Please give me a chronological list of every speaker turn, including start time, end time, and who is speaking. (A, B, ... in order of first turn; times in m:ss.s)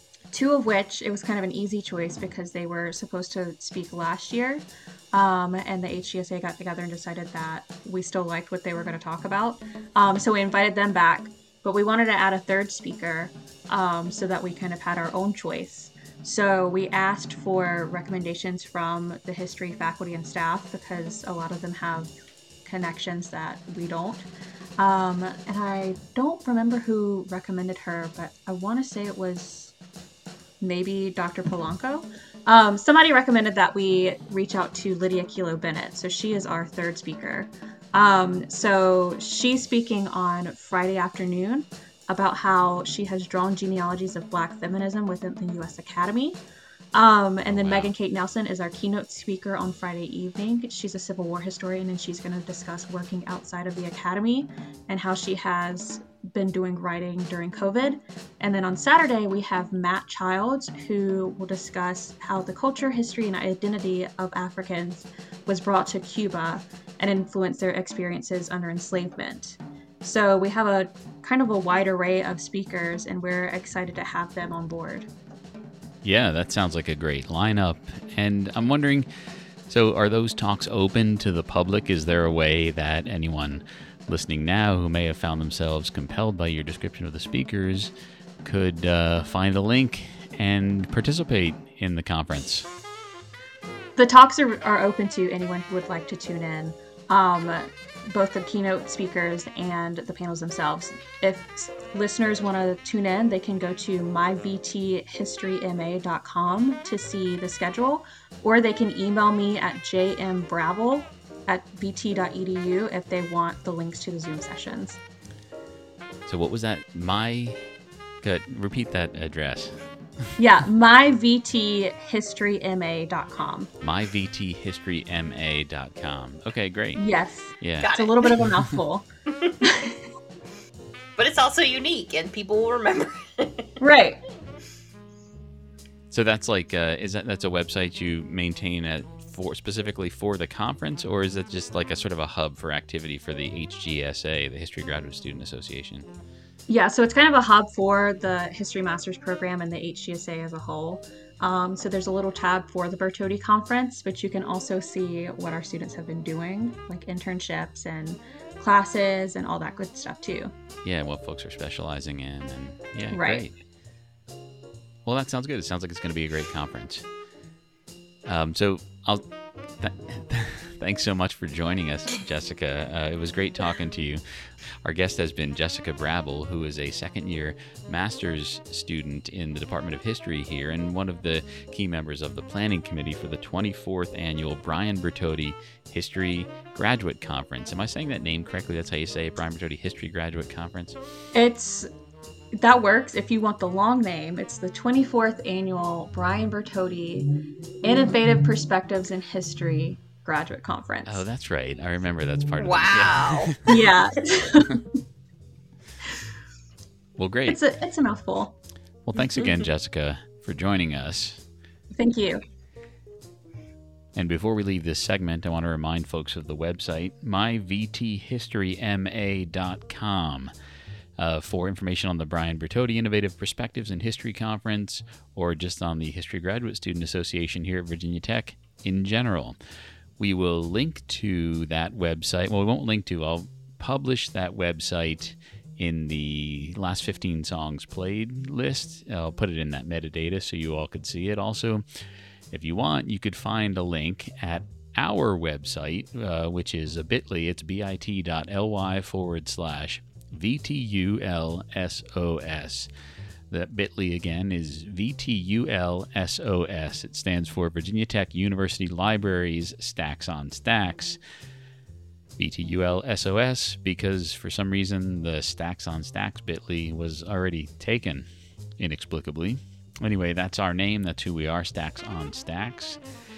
0:00.3-0:22.1 A
0:22.6-0:29.7 A
0:30.6-0:46.4 A
0:46.9-1:15.1 A
0:47.5-0:47.9 B
1:16.0-1:19.1 B
1:19.7-1:27.9 B
1:28.4-1:32.7 B
1:34.0-1:55.0 A
1:56.3-1:57.6 B
1:58.2-1:59.8 B
2:00.4-2:03.7 A
2:03.8-2:07.0 B
2:07.0-2:09.1 A
2:07.6-2:07.9 B
2:07.8-2:08.3 C
2:09.6-2:09.9 A
2:11.2-2:13.7 C
2:13.8-2:14.2 A
2:16.1-2:26.1 B
2:26.7-2:40.5 A
2:40.8-2:43.5 B
2:43.1-2:43.4 A
2:45.0-2:47.0 B
2:48.2-2:49.2 B
2:49.8-2:54.2 B
2:54.8-3:11.0 B
3:11.3-3:11.9 A
3:12.5-3:17.3 A
3:17.8-3:21.2 A
3:21.0-3:23.8 B
3:22.6-3:23.6 C
3:23.7-3:24.9 A
3:27.2-3:27.6 B
3:27.5-3:28.6 A
3:29.0-3:31.4 B
3:31.9-3:32.4 A
3:34.1-3:40.5 B
3:41.2-3:49.6 B
3:50.2-4:01.8 B
4:02.5-4:12.9 B
4:13.5-4:21.2 B
4:22.4-4:28.3 B
4:28.8-4:33.0 B